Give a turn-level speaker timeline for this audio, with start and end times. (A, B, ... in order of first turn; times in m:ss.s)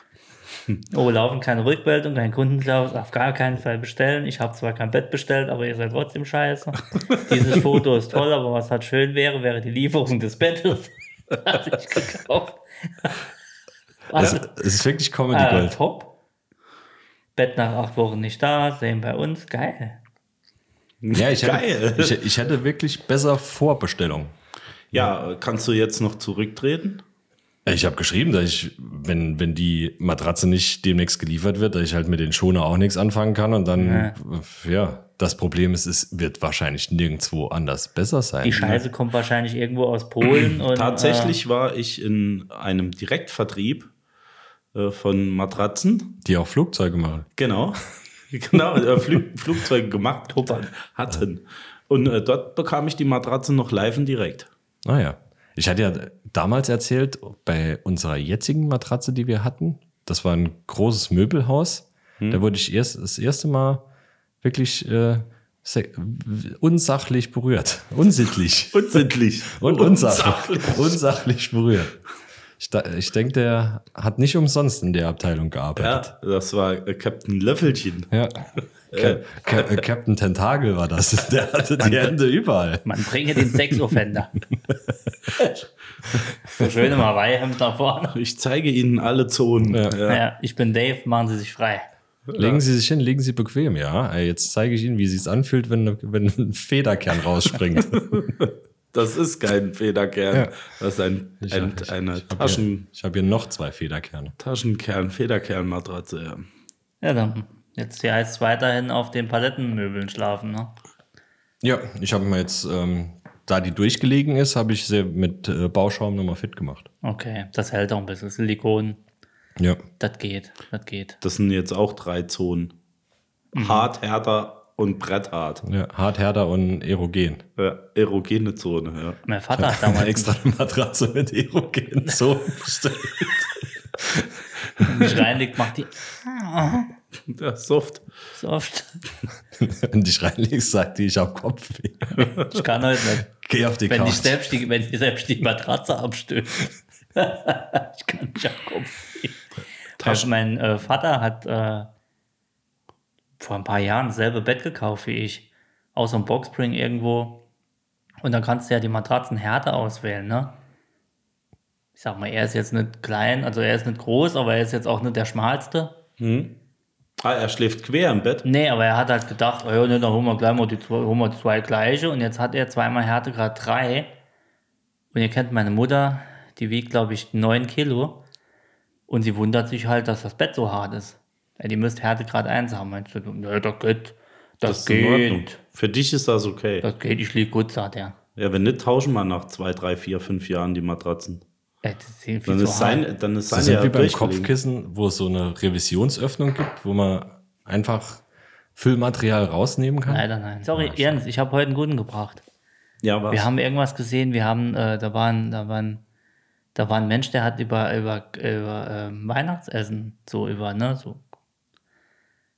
0:00.9-0:13.2 A
0:14.1-0:14.5 A
0:14.1-0:15.8 B
0:15.3-0:16.1 A
0:17.4-0:20.0 A
0:21.0-0:22.2 C
0:21.1-0:24.3 B
0:24.9-0:27.0 C
0:27.6-0:38.8 B
0:33.8-0:34.2 A
0:38.4-0:41.4 A
0:40.3-0:43.9 C
0:44.7-0:46.2 C
0:46.2-0:47.3 B
0:47.4-0:47.8 C
0:48.3-0:54.5 C
0:50.3-0:50.7 A
0:54.8-1:03.8 B
1:04.4-1:12.0 B
1:08.7-1:11.0 C
1:12.6-1:16.1 B
1:15.8-1:18.1 C
1:18.1-1:18.4 B
1:18.9-1:19.8 C
1:18.9-1:23.6 B
1:21.8-1:22.1 C
1:22.8-1:24.3 A
1:26.5-1:28.1 A
1:28.1-1:30.2 C
1:29.7-1:30.0 B
1:30.0-1:31.9 A
1:32.3-1:32.6 C
1:32.4-1:38.3 B
1:38.0-1:42.9 C
1:41.4-1:44.3 B
1:44.4-1:46.4 C
1:47.0-1:50.7 A
1:51.6-1:56.9 B
1:57.0-1:59.0 A
1:59.6-1:59.8 B
2:00.0-2:01.2 A
2:01.2-2:02.7 C
2:03.5-2:03.9 A
2:03.6-2:05.6 C
2:05.6-2:07.4 B
2:07.6-2:09.2 C
2:09.2-2:10.4 A
2:09.6-2:14.3 B
2:14.8-2:16.9 A
2:17.3-2:18.0 C
2:18.3-2:19.0 A
2:19.6-2:22.4 B
2:22.5-2:23.3 A
2:23.3-2:24.4 B
2:23.9-2:29.4 A
2:30.0-2:30.3 C
2:30.0-2:31.9 A
2:33.4-2:37.4 A
2:38.2-2:40.6 A
2:42.0-2:46.0 A
2:46.2-2:46.6 C
2:47.2-2:48.4 C
2:48.4-2:54.1 A
2:55.1-2:58.2 A
2:59.1-3:05.6 A
3:04.6-3:06.8 C
3:06.8-3:08.2 A
3:08.4-3:11.4 C
3:11.8-3:13.0 A
3:12.5-3:14.5 C
3:13.5-3:18.2 B
3:18.8-3:21.2 B
3:20.0-3:22.4 A
3:23.0-3:23.5 C
3:23.3-3:26.0 A
3:26.7-3:31.2 A